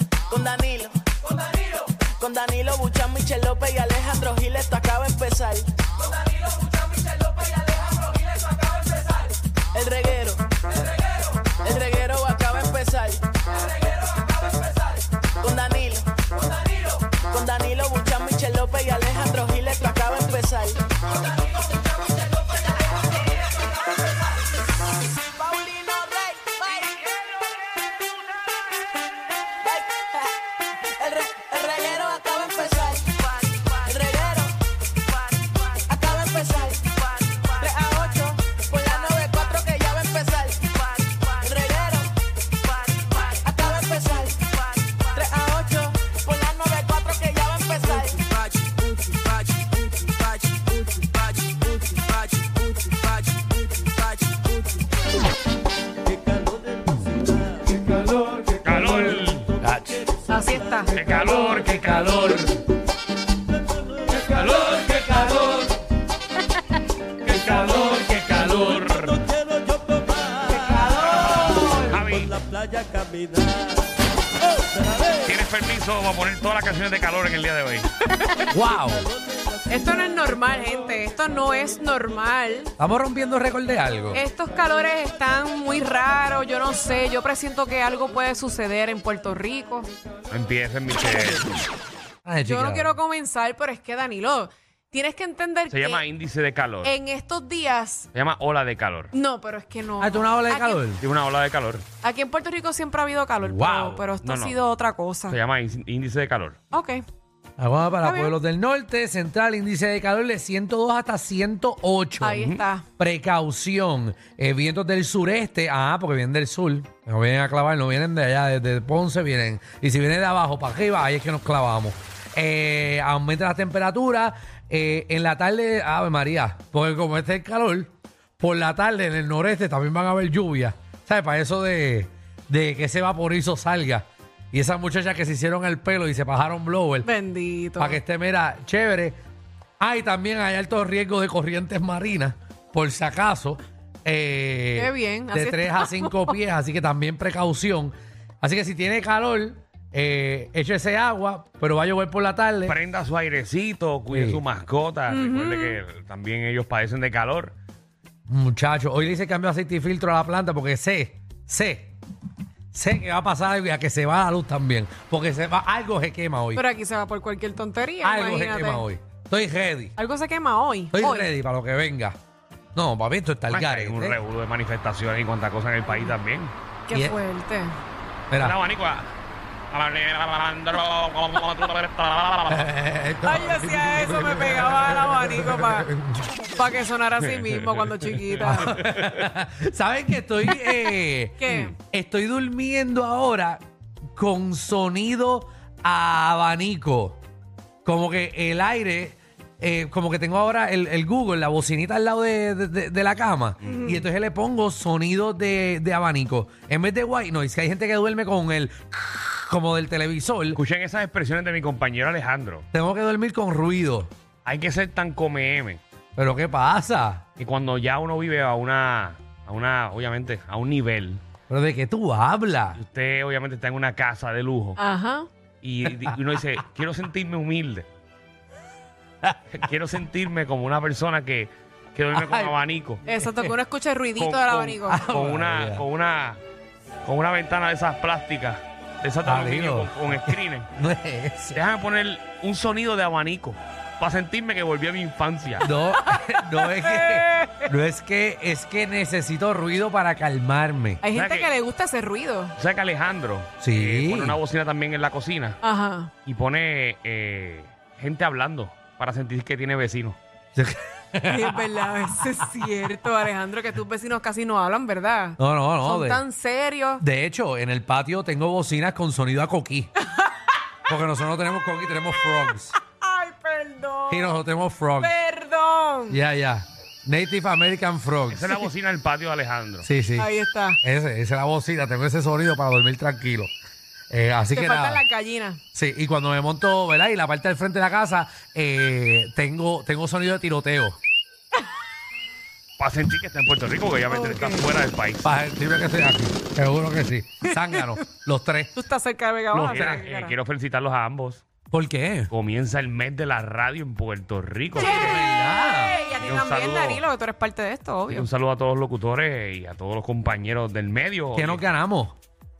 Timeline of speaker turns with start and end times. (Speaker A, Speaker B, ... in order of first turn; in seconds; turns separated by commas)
Speaker A: 0.3-5.7, Speaker A: 9.7-10.5, Speaker A: 11.4-13.3, Speaker A: 15.4-20.8, Speaker A: 25.2-27.3, Speaker A: 29.6-34.5, Speaker A: 35.3-42.1, Speaker A: 42.7-50.3, Speaker B: 58.1-58.4, Speaker C: 58.6-60.1, Speaker D: 60.2-60.9, Speaker C: 60.9-62.6, Speaker C: 64.1-65.7, Speaker C: 67.2-69.3, Speaker D: 70.5-71.9, Speaker C: 70.8-72.6, Speaker C: 75.1-77.9, Speaker B: 78.5-79.1, Speaker D: 79.7-82.7, Speaker B: 82.8-84.2, Speaker D: 84.1-89.9, Speaker C: 90.3-91.6, Speaker B: 92.2-93.0, Speaker D: 92.4-96.0, Speaker C: 95.7-96.9, Speaker D: 96.8-98.1, Speaker C: 98.1-99.1, Speaker D: 99.1-100.8, Speaker B: 100.0-101.0, Speaker C: 101.0-101.8, Speaker D: 102.0-105.4, Speaker B: 103.4-104.0, Speaker C: 104.2-104.6, Speaker C: 105.3-106.6, Speaker D: 106.7-107.0, Speaker B: 107.6-137.1, Speaker D: 108.0-108.3, Speaker D: 112.2-112.8, Speaker D: 137.0-138.0, Speaker B: 137.8-139.2, Speaker B: 139.8-152.8, Speaker D: 144.8-146.4, Speaker C: 152.7-157.5, Speaker B: 154.1-154.4, Speaker D: 155.1-155.8, Speaker B: 158.3-161.9, Speaker B: 162.7-166.6, Speaker D: 166.5-168.8, Speaker B: 168.0-169.9, Speaker D: 170.0-171.3, Speaker B: 170.9-172.2, Speaker B: 172.7-174.2, Speaker C: 173.5-176.5, Speaker D: 176.9-177.7, Speaker B: 176.9-177.2, Speaker B: 178.3-178.6, Speaker C: 178.4-179.1, Speaker C: 179.7-182.7, Speaker B: 182.5-186.3, Speaker D: 183.2-185.9, Speaker D: 186.4-188.8, Speaker C: 187.2-189.2, Speaker B: 188.4-193.6, Speaker D: 191.4-191.8, Speaker B: 194.2-197.2, Speaker B: 197.8-210.6, Speaker C: 203.6-203.9, Speaker C: 210.5-212.7, Speaker B: 212.7-214.1, Speaker C: 214.4-215.8, Speaker B: 216.2-217.2, Speaker C: 217.4-221.2, Speaker B: 221.5-222.8, Speaker C: 222.8-224.8, Speaker D: 224.8-225.3, Speaker C: 225.6-227.9, Speaker B: 225.8-226.2, Speaker C: 229.5-233.0, Speaker B: 232.1-232.5, Speaker B: 233.1-233.6, Speaker D: 233.1-235.1, Speaker C: 234.2-236.4, Speaker B: 234.8-235.8, Speaker C: 237.0-240.7, Speaker B: 239.2-241.6, Speaker C: 241.5-245.7, Speaker B: 245.6-251.0, Speaker D: 246.1-247.7, Speaker D: 251.0-252.5, Speaker C: 251.1-251.5, Speaker C: 252.6-255.6, Speaker B: 253.6-254.4, Speaker D: 255.6-256.1, Speaker C: 256.2-260.2, Speaker B: 260.5-261.7, Speaker D: 261.2-267.0, Speaker B: 265.4-266.2, Speaker B: 267.0-269.9, Speaker B: 270.9-272.8, Speaker D: 272.8-274.4, Speaker B: 274.1-275.1, Speaker D: 275.0-276.2, Speaker B: 276.1-278.6, Speaker C: 278.3-279.9, Speaker B: 279.8-283.5, Speaker D: 280.2-280.8, Speaker B: 284.1-285.0, Speaker D: 284.5-285.6, Speaker B: 285.7-291.0, Speaker C: 292.8-295.3, Speaker D: 294.1-294.6, Speaker B: 295.2-298.7, Speaker D: 297.4-298.0, Speaker D: 298.7-300.3, Speaker B: 299.5-300.0, Speaker C: 299.6-301.4, Speaker B: 301.7-302.3, Speaker C: 302.3-305.2, Speaker D: 304.8-308.3, Speaker B: 304.8-306.0, Speaker C: 306.2-307.0, Speaker C: 308.1-311.6, Speaker B: 311.3-312.1